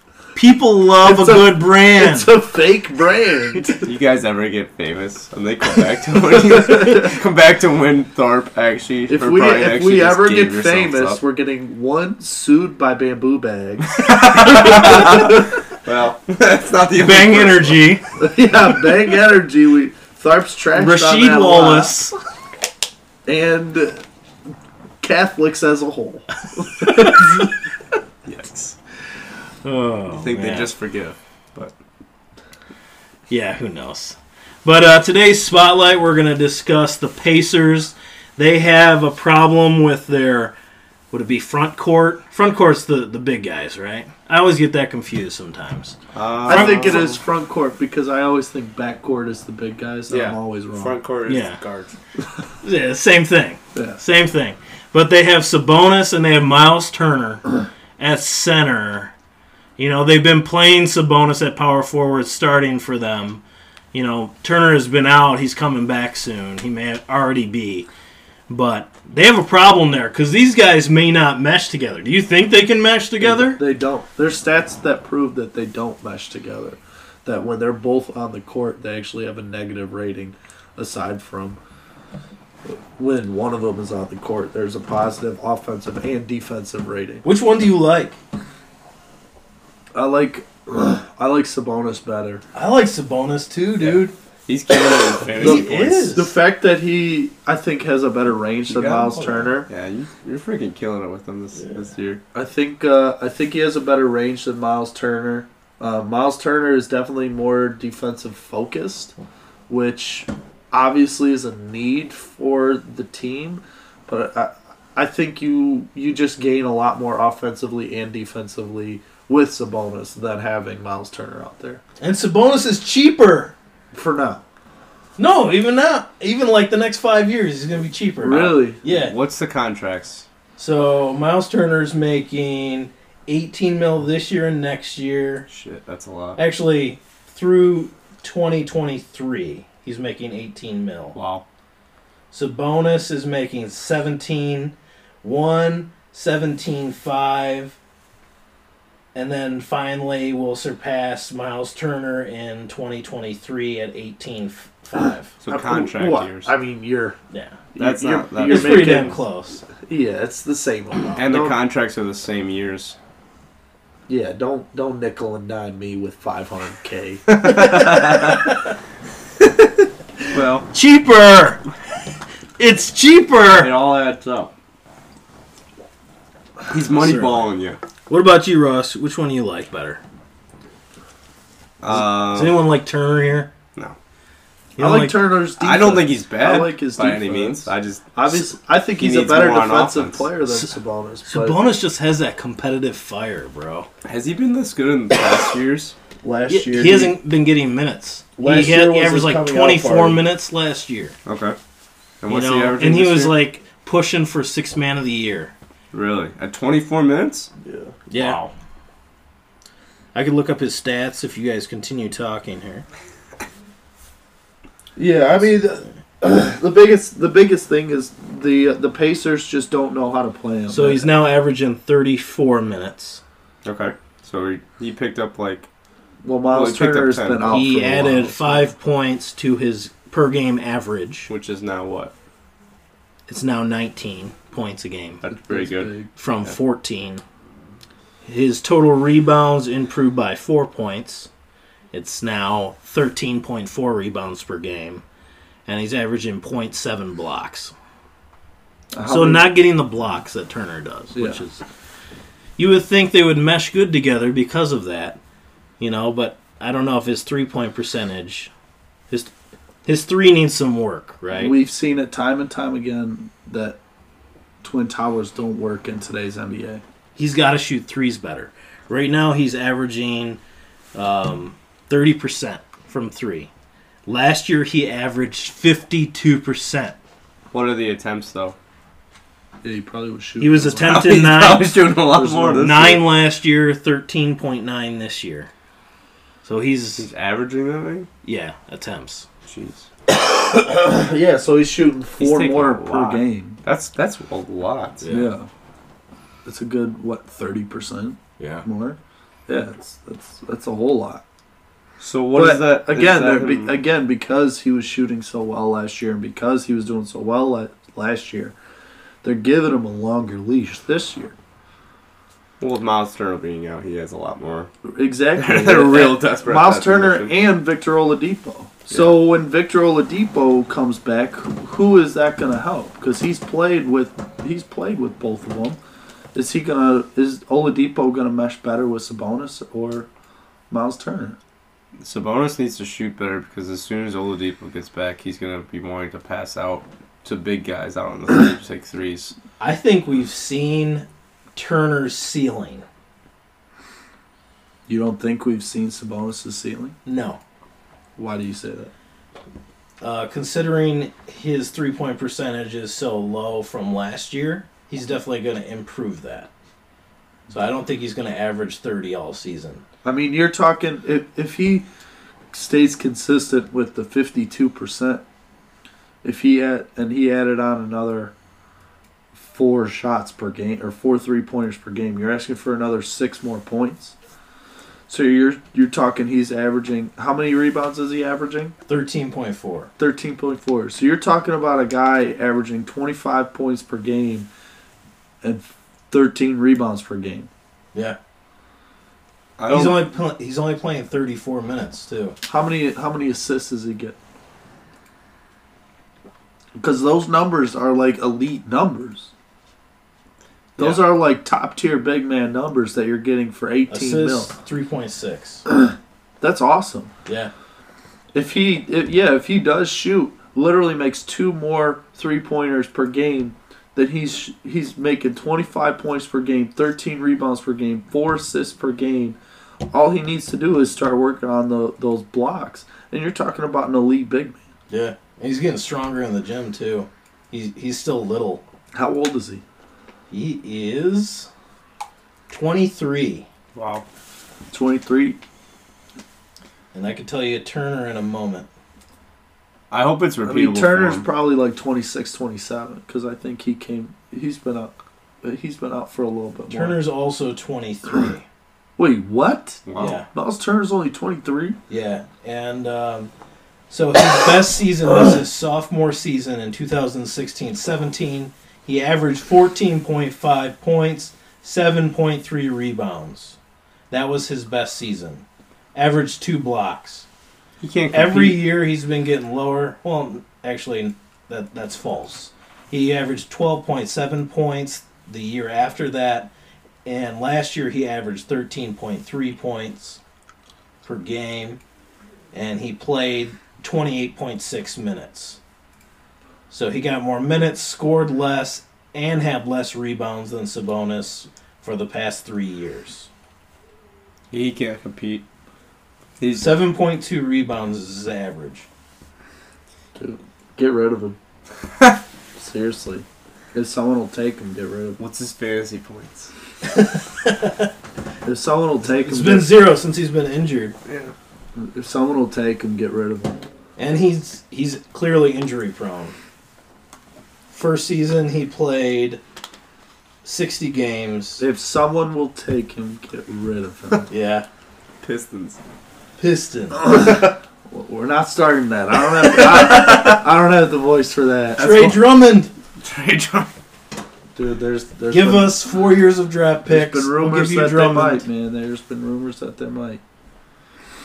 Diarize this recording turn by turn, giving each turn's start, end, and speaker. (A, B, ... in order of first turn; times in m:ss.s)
0:00.4-0:02.3 A
0:01.0-0:03.8 B
0:03.7-0:11.2 C
0:06.4-0:07.1 B
0:09.1-0:15.5 B
0:13.9-0:17.9 C
0:17.0-0:18.0 A
0:18.2-0:22.0 B
0:20.7-0:22.2 A
0:23.2-0:24.0 B
0:25.0-0:27.5 B
0:26.8-0:27.5 A
0:28.2-0:28.8 C
0:29.6-0:30.7 A
0:30.1-0:31.7 C
0:33.3-0:40.6 A
0:41.1-0:47.2 A
0:46.1-0:47.2 C
0:46.4-0:51.0 B
0:50.1-0:51.9 C
0:51.3-0:51.6 A
0:52.6-0:59.1 A
0:53.8-0:54.0 B
0:59.8-1:03.4 A
1:03.9-1:07.9 A
1:08.5-1:13.6 A
1:13.2-1:21.6 B
1:22.6-1:27.2 B
1:27.2-1:28.2 A
1:30.0-1:32.4 B
1:32.5-1:34.1 A
1:33.8-1:36.1 C
1:35.3-1:36.4 A
1:35.4-1:39.7 B
1:38.7-1:39.2 C
1:39.1-1:39.6 A
1:39.7-1:42.2 C
1:42.3-1:49.1 B
1:49.7-2:01.8 B
2:02.0-2:03.6 A
2:03.9-2:04.4 B
2:05.2-2:09.2 A
2:08.2-2:08.8 B
2:08.8-2:10.3 C
2:10.6-2:15.5 A
2:15.5-2:16.4 C
2:16.4-2:21.2 A
2:21.2-2:21.4 C
2:22.3-2:27.8 A
2:29.2-2:35.4 A
2:35.4-2:36.5 C
2:35.5-2:37.2 B
2:37.3-2:37.6 A
2:37.7-2:39.2 B
2:37.8-2:39.2 C
2:38.4-2:39.6 A
2:39.8-2:41.6 B
2:41.2-2:43.0 C
2:44.1-2:47.2 B
2:47.3-2:48.5 C
2:47.4-2:48.7 A
2:50.3-2:50.7 C
2:50.7-2:51.6 A
2:52.6-2:53.7 A
2:53.6-2:54.5 B
2:53.8-2:54.3 C
2:56.7-2:57.8 C
2:57.0-2:57.5 A
2:58.1-3:00.0 A
3:01.8-3:02.6 C
3:01.9-3:03.5 A
3:04.8-3:05.2 A
3:04.8-3:11.6 B
3:05.6-3:10.3 C
3:10.5-3:13.9 A
3:14.0-3:16.0 C
3:16.2-3:17.2 B
3:16.5-3:21.2 A
3:18.4-3:20.2 B
3:21.2-3:21.6 C
3:22.2-3:23.4 C
3:22.3-3:25.5 A
3:25.9-3:27.5 C
3:27.6-3:28.0 B
3:28.1-3:28.4 A
3:28.1-3:28.5 C
3:30.1-3:32.8 A
3:35.0-3:41.1 B
3:40.7-3:43.2 A
3:43.6-3:45.7 C
3:46.2-3:48.6 B
3:46.5-3:47.6 C
3:47.5-3:51.3 A
3:51.3-3:52.1 C
3:53.3-3:55.2 A
3:55.2-3:55.9 C
3:55.5-3:56.1 B
3:56.2-3:57.2 A
3:58.2-4:01.3 A
4:01.9-4:05.0 A
4:05.7-4:07.7 A
4:08.9-4:09.5 B
4:09.1-4:11.6 A
4:11.2-4:11.4 B
4:12.6-4:15.2 A
4:15.8-4:18.5 A
4:19.8-4:21.6 A
4:21.3-4:23.8 B
4:24.6-4:26.8 B
4:27.2-4:30.4 A
4:31.0-4:33.5 A
4:34.1-4:37.0 A
4:37.5-4:38.6 C
4:39.6-4:41.0 B
4:40.4-4:41.8 A
4:40.8-4:43.0 C
4:42.1-4:42.8 B
4:42.6-4:45.5 A
4:46.4-4:47.1 A
4:47.0-4:48.1 C
4:48.2-4:49.3 A
4:49.5-4:49.9 C
4:50.1-4:53.6 B
4:52.2-4:55.0 C
4:55.0-4:55.3 A
4:55.1-4:55.5 B
4:56.4-5:01.2 B
4:58.4-4:58.6 A
5:02.0-5:03.8 C
5:02.3-5:08.6 B
5:09.2-5:11.4 B
5:12.6-5:14.7 C
5:14.8-5:25.8 B
5:15.4-5:17.3 C
5:18.9-5:19.2 C
5:26.4-5:30.1 B
5:30.7-5:31.4 B
5:32.0-5:39.3 C
5:39.6-5:42.8 A
5:44.9-5:47.0 B
5:47.1-5:47.4 A
5:48.2-5:48.9 B
5:50.0-5:56.5 A
5:57.5-5:59.8 A
6:00.0-6:01.9 B
6:02.5-6:05.2 B
6:06.2-6:08.3 B
6:09.3-6:14.2 B
6:15.1-6:18.7 B
6:18.9-6:19.9 A
6:20.0-6:24.5 B
6:25.4-6:27.5 B
6:29.6-6:30.0 C
6:29.7-6:32.4 A
6:32.5-6:34.2 B
6:36.8-6:39.3 B
6:40.8-6:44.5 B
6:43.9-6:45.6 A
6:45.7-6:47.1 B
6:47.3-6:47.5 A
6:48.3-6:59.4 B
6:59.9-7:04.6 B
7:04.9-7:08.6 A
7:08.9-7:09.6 B
7:10.3-7:11.5 A
7:12.5-7:13.5 A
7:13.8-7:14.0 C
7:14.7-7:15.4 B
7:16.9-7:18.7 A
7:19.9-7:21.3 C
7:20.4-7:27.0 B
7:26.7-7:28.5 A
7:29.0-7:31.8 B
7:29.9-7:30.2 C
7:30.0-7:30.3 A
7:31.9-7:33.3 A
7:33.9-7:43.6 A
7:44.1-7:47.3 A
7:47.8-7:48.6 C
7:48.1-7:56.5 A
7:57.0-8:00.2 A
8:01.0-8:01.8 A
8:02.5-8:05.6 A
8:06.7-8:13.3 A
8:14.5-8:15.4 C
8:16.4-8:16.8 C
8:16.6-8:18.9 A
8:20.2-8:21.4 B
8:22.6-8:25.2 B
8:25.2-8:26.5 C
8:26.9-8:27.9 A
8:28.4-8:29.7 B
8:29.0-8:31.0 A
8:31.1-8:31.3 C
8:31.8-8:33.6 B
8:34.0-8:36.4 A
8:37.7-8:39.4 A
8:40.4-8:41.6 A
8:41.6-8:44.3 B
8:44.3-8:44.7 A
8:45.2-8:45.8 C
8:46.4-8:47.1 A
8:47.0-8:51.9 B
8:49.6-8:50.4 C
8:51.8-8:52.3 C
8:51.8-8:52.7 A
8:53.0-8:53.7 C
8:54.6-8:55.7 B
8:55.3-8:58.4 A
8:56.9-9:00.2 B